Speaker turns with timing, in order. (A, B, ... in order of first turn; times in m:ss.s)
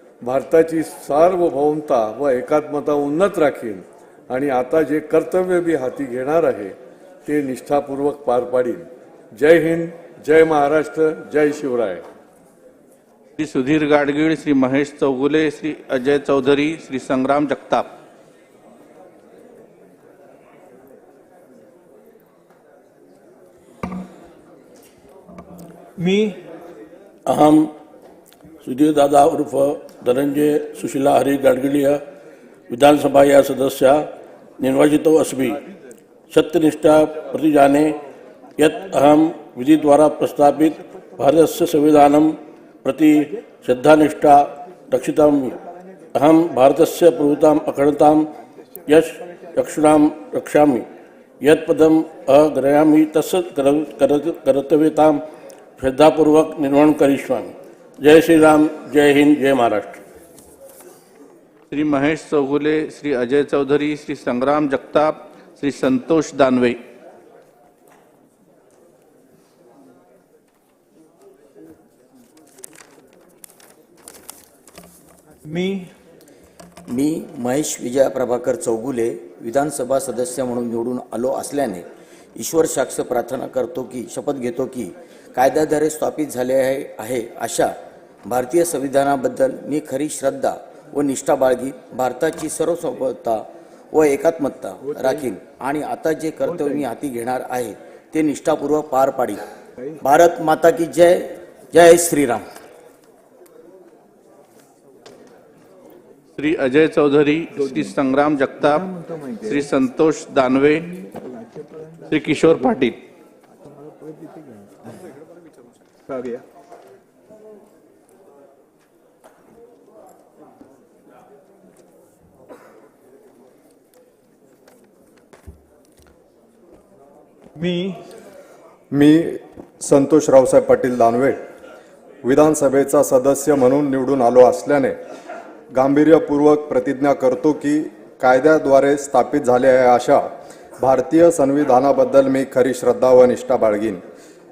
0:00.2-0:12.0 A
0:13.4-0:17.9 B
0:26.0-0:26.4 B
0:27.2-0:27.7 C
0:28.6-0:32.0 C
0:32.7-0:34.1 C
0:34.6-0:35.6 C
0:36.3-0:38.0 C
0:38.6-0:45.6 C
0:46.1-0:48.3 C
0:48.8-0:50.9 C
0:51.4-0:55.2 C
0:55.8-1:00.0 C
1:01.7-1:06.8 B
1:15.6-1:15.8 B
1:16.9-1:21.8 D
1:22.4-1:27.7 D
1:28.2-1:39.4 D
1:40.0-1:42.4 D
1:46.4-1:48.8 B
1:49.4-1:50.9 B
1:52.1-1:53.0 B
2:08.9-2:11.4 E
2:12.2-2:15.0 E
2:15.7-2:20.3 E
2:20.8-2:24.0 E